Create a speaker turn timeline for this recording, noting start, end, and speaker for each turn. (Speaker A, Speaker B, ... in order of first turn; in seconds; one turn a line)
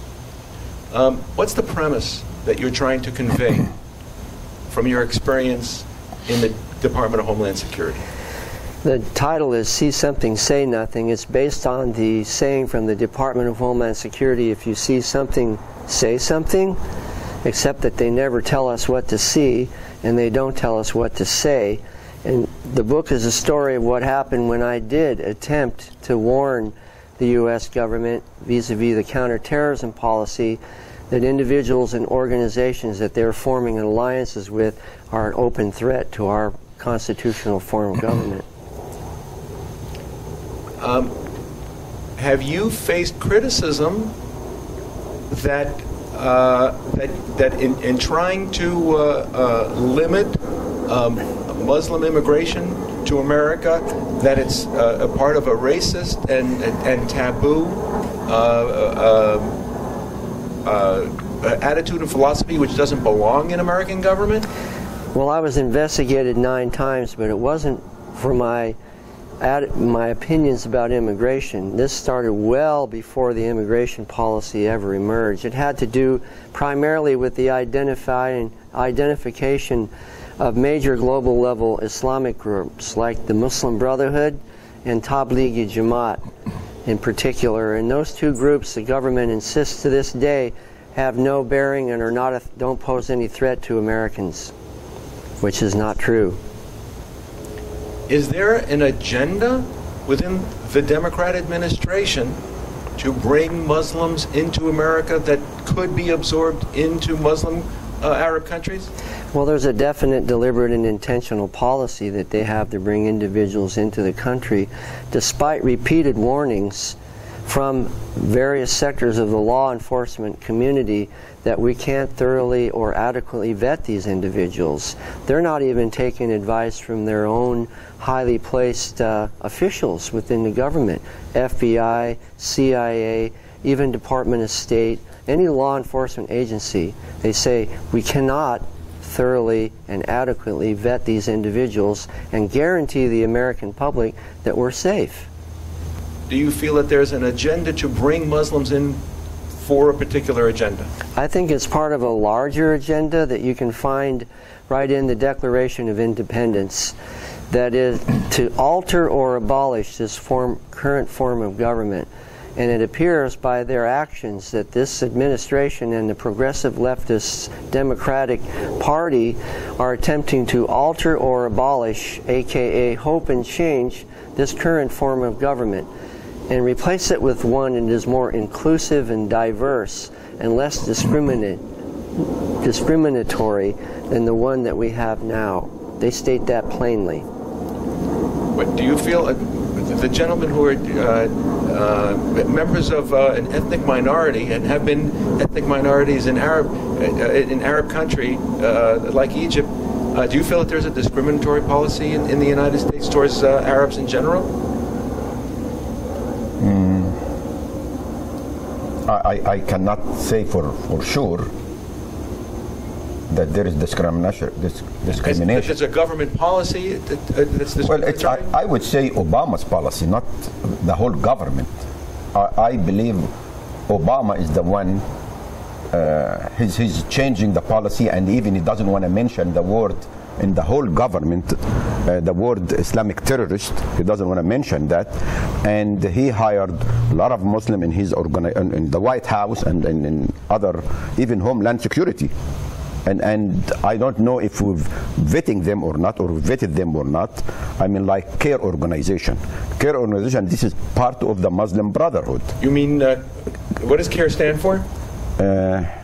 Speaker A: 0.9-3.7
Speaker A: 4.7-8.0
Speaker B: 8.8-16.8
Speaker B: 17.4-38.5
Speaker A: 40.8-41.1
Speaker A: 42.2-44.1
Speaker A: 45.3-59.5
Speaker A: 60.6-64.5
Speaker B: 65.2-68.8
Speaker B: 69.4-86.2
Speaker B: 86.8-94.5
Speaker B: 95.4-96.4
Speaker A: 98.1-102.4
Speaker A: 103.0-108.9
Speaker B: 109.3-145.3
Speaker A: 146.3-149.0
Speaker A: 149.6-150.9
Speaker B: 151.2-156.9
Speaker B: 157.5-175.9
Speaker B: 176.5-181.6
Speaker B: 182.2-187.2
Speaker A: 188.6-204.5
Speaker C: 206.6-207.2
Speaker C: 209.1-211.5
Speaker C: 213.3-215.8
Speaker A: 215.2-218.5
Speaker C: 217.8-221.7
Speaker C: 222.3-223.3
Speaker C: 223.9-225.0
Speaker C: 225.9-242.3
Speaker C: 243.1-252.5
Speaker A: 252.6-253.2
Speaker A: 253.7-254.9
Speaker C: 255.4-255.9